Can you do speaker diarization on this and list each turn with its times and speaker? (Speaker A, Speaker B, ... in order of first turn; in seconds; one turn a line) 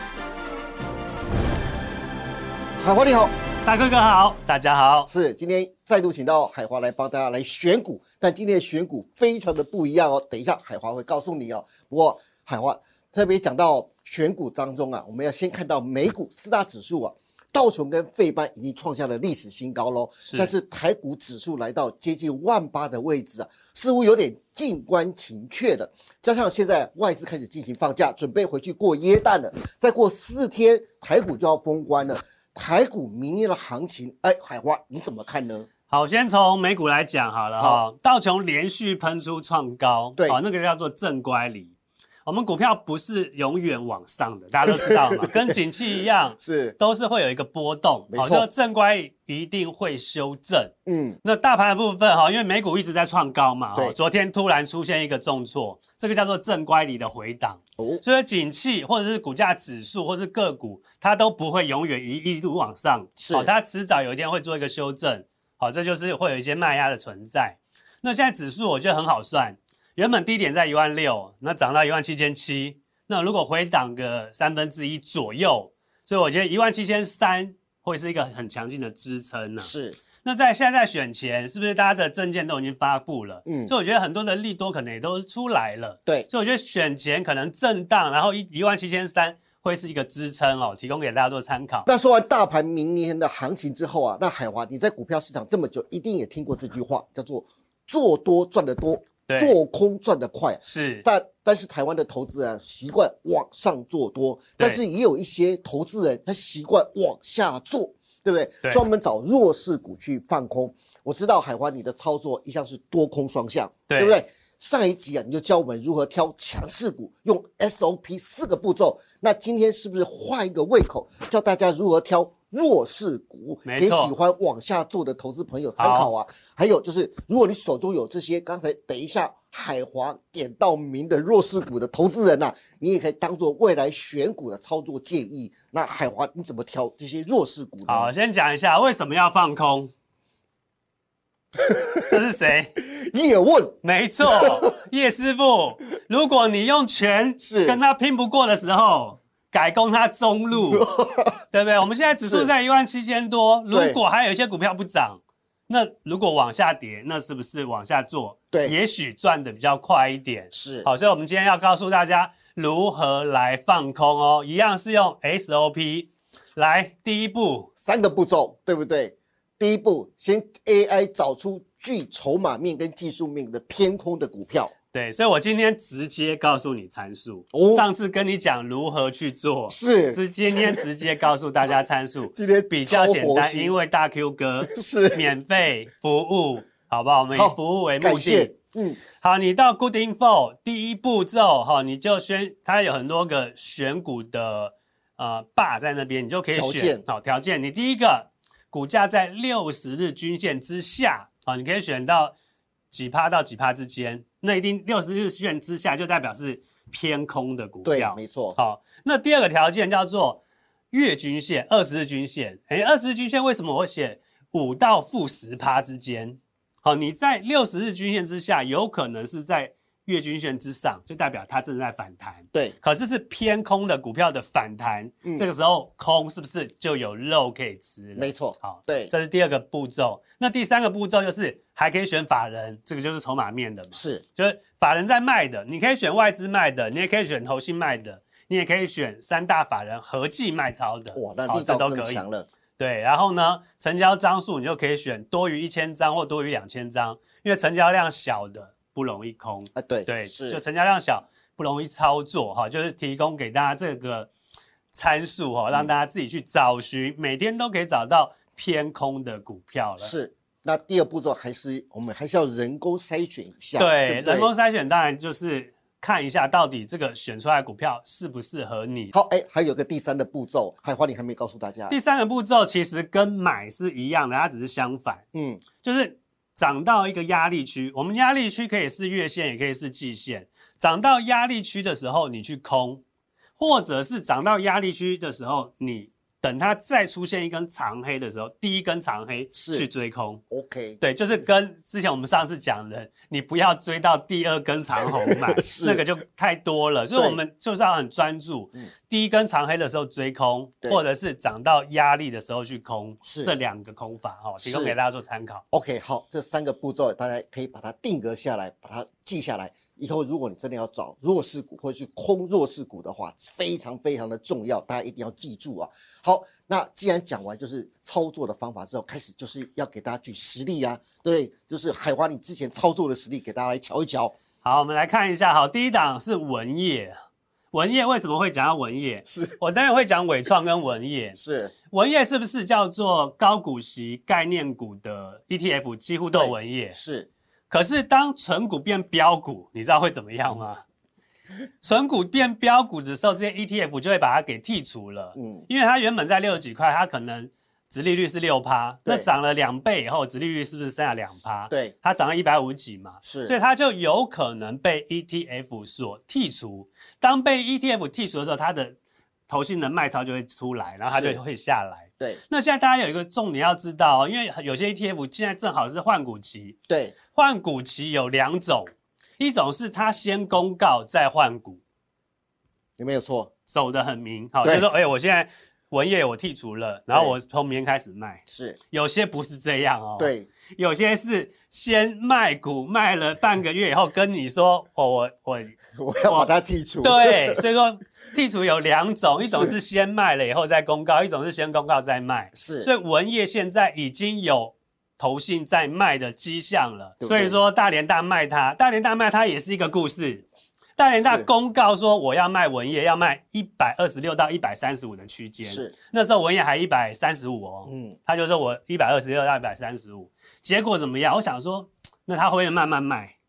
Speaker A: 2.8-3.3
Speaker B: 3.6-5.1
Speaker A: 5.1-35.7
Speaker B: 20.2-20.5
Speaker B: 35.9-91.9
Speaker A: 37.6-37.8
Speaker A: 40.2-40.4
Speaker A: 44.6-45.6
Speaker A: 46.4-46.8
Speaker A: 48.1-48.5
Speaker A: 50.9-51.2
Speaker A: 57.8-58.0
Speaker A: 63.2-63.5
Speaker A: 79.6-80.0
Speaker A: 83.5-83.7
Speaker A: 91.8-138.1
Speaker B: 99.3-99.5
Speaker B: 100.6-101.0
Speaker B: 113.9-114.2
Speaker B: 123.6-124.1
Speaker B: 125.8-126.1
Speaker B: 137.8-139.9
Speaker A: 141.6-142.2
Speaker B: 142.1-142.8
Speaker A: 142.8-144.7
Speaker B: 143.8-150.8
Speaker A: 147.4-147.8
Speaker A: 150.5-151.4
Speaker B: 151.5-167.7
Speaker A: 152.2-152.5
Speaker A: 153.7-154.0
Speaker A: 160.5-160.9
Speaker A: 167.8-174.7
Speaker B: 174.9-188.6
Speaker A: 177.5-177.9
Speaker A: 179.7-180.9
Speaker A: 182.3-183.8
Speaker A: 184.7-185.3
Speaker A: 187.3-189.0
Speaker B: 189.1-202.4
Speaker A: 196.5-197.1
Speaker B: 202.9-242.2
Speaker A: 207.8-208.6
Speaker A: 228.2-229.1
Speaker A: 233.9-234.2
Speaker A: 241.1-242.5
Speaker B: 242.8-254.3
Speaker A: 249.8-250.6
Speaker B: 254.9-260.1
Speaker A: 260.0-264.5
Speaker B: 263.8-269.1
Speaker A: 269.1-271.9
Speaker B: 271.9-275.2
Speaker A: 275.3-275.6
Speaker B: 275.8-283.0
Speaker B: 283.6-290.4
Speaker A: 289.5-289.9
Speaker A: 290.5-291.0
Speaker B: 291.0-305.6
Speaker A: 295.0-296.0
Speaker A: 303.2-303.5
Speaker A: 304.6-304.9
Speaker A: 305.7-324.3
Speaker B: 324.6-327.2
Speaker B: 327.7-331.4
Speaker A: 329.2-329.6
Speaker A: 331.4-331.7
Speaker B: 331.9-337.0
Speaker A: 336.3-337.3
Speaker B: 337.7-340.8
Speaker B: 341.8-359.0
Speaker A: 345.3-345.7
Speaker A: 351.7-351.9
Speaker A: 353.2-353.5
Speaker B: 359.5-366.8
Speaker A: 361.0-361.4
Speaker A: 366.9-367.1
Speaker B: 367.3-371.8
Speaker A: 373.0-373.5
Speaker B: 373.7-400.4
Speaker A: 374.6-374.9
Speaker A: 378.5-378.8
Speaker A: 380.2-380.5
Speaker A: 385.9-387.6
Speaker A: 389.4-389.8
Speaker A: 392.5-392.9
Speaker A: 397.2-397.6
Speaker B: 401.0-413.4
Speaker A: 401.2-401.5
Speaker A: 405.6-405.9
Speaker A: 407.9-408.2